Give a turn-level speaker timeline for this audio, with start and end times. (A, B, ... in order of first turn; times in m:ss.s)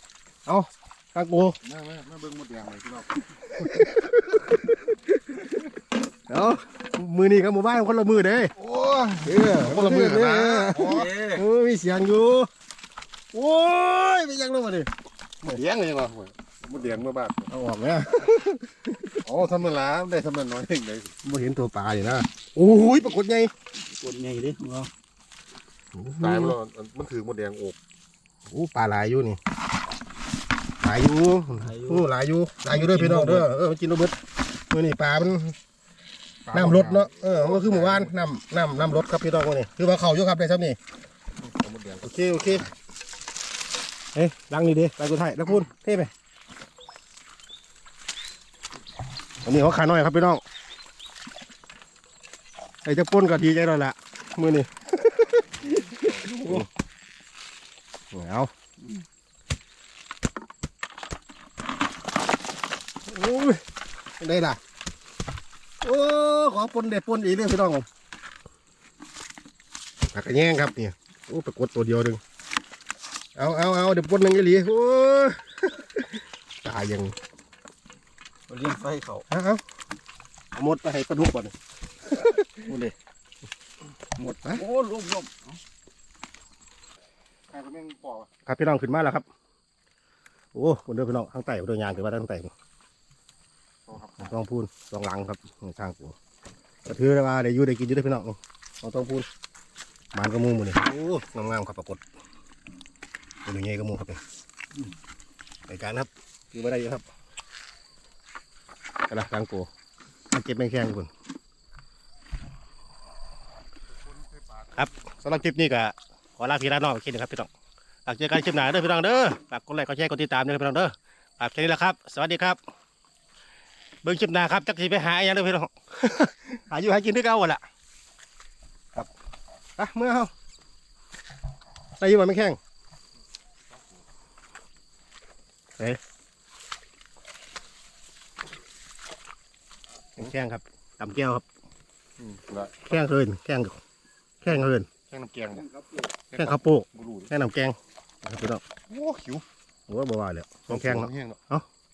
0:00.4-0:01.6 A
0:01.6-0:03.4 B
0:03.6-0:04.9 A
0:06.3-0:08.5 A
0:08.6-0:11.1 B
0:09.2-0:12.5 A
0:10.8-0:11.4 C
0:13.3-0:14.9 A
0:15.4-0:17.5 B
0:17.5-0:19.2 A
0:19.2-0:21.1 B
0:21.2-0:23.5 A
0:23.7-0:24.9 C
0:25.9-0:26.6 A
0:26.2-0:27.8 B
0:28.5-0:29.4 A
0:30.8-0:34.2 A
0:31.5-0:32.1 C
0:32.6-0:33.5 C
0:34.7-0:35.5 A
0:36.4-0:38.2 B
0:36.5-0:40.8 A
0:41.4-0:42.1 B
0:42.0-0:42.7 A
0:44.1-0:46.1 A
0:49.4-0:50.4 A
0:52.8-0:56.6 A
0:56.1-0:56.6 C
0:58.1-0:58.5 A
0:58.8-0:59.0 C
1:03.1-1:03.6 A
1:04.2-1:04.6 A
1:05.8-1:07.8 A
1:10.1-1:12.2 A
1:13.4-1:17.1 A
1:18.5-1:19.3 C
1:19.3-1:19.6 A
1:20.5-1:21.5 A
1:22.0-1:22.9 A
1:24.2-1:25.5 C
1:27.5-1:28.3 B
1:28.4-1:29.2 A
1:30.5-1:32.5 A
1:33.9-1:34.3 B
1:34.2-1:36.1 A
1:36.8-1:39.3 A
1:40.1-1:42.0 A
1:43.4-1:44.2 A
1:45.7-1:47.0 A
1:49.1-1:49.7 A
1:50.3-1:51.1 A
1:54.0-1:54.9 B
1:54.8-1:57.5 A
1:58.0-2:02.6 A
2:04.0-2:07.6 A
2:09.8-2:10.3 A
2:12.0-2:12.6 A
2:20.2-2:21.4 A
2:22.2-2:22.7 B
2:22.8-2:23.8 A
2:24.4-2:24.9 A
2:25.0-2:25.7 B
2:25.5-2:26.2 C
2:26.3-2:27.3 B
2:26.3-2:28.6 A
2:28.9-2:29.4 B
2:29.9-2:31.6 A
2:30.7-2:31.4 B